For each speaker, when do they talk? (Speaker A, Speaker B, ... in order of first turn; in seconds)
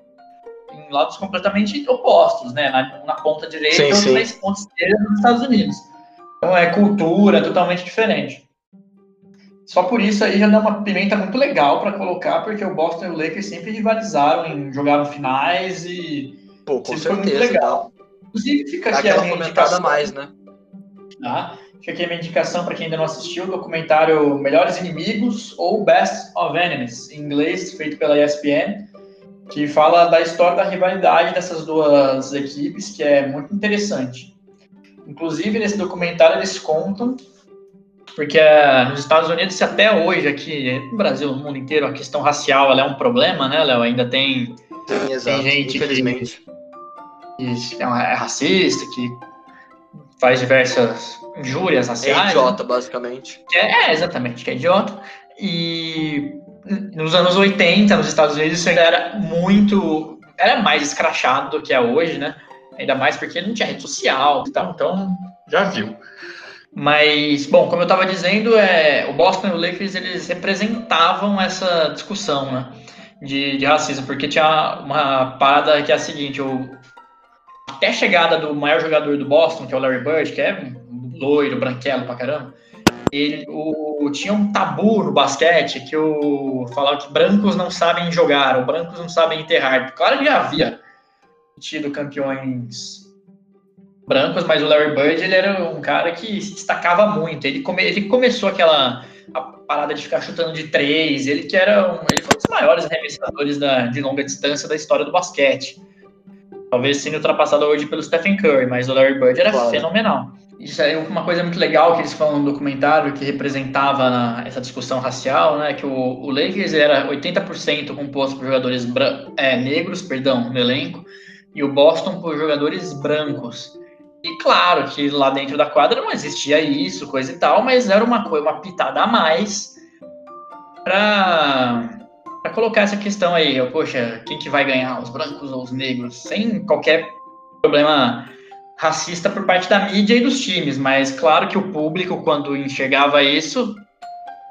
Speaker A: 0.7-5.9, 6.4-8.4, 9.7-20.1, 21.2-28.9, 29.5-34.3, 35.0-37.2, 38.1-44.6, 45.2-46.4, 47.4-49.2, 50.2-52.6, 53.5-66.0, 66.7-76.8, 77.8-82.5, 83.1-90.8, 91.5-93.1, 94.0-105.8, 106.7-129.8, 130.8-131.9, 132.4-143.8
Speaker B: 3.7-4.3, 16.6-17.9, 18.9-20.3, 44.9-46.4, 52.0-53.4, 109.5-109.9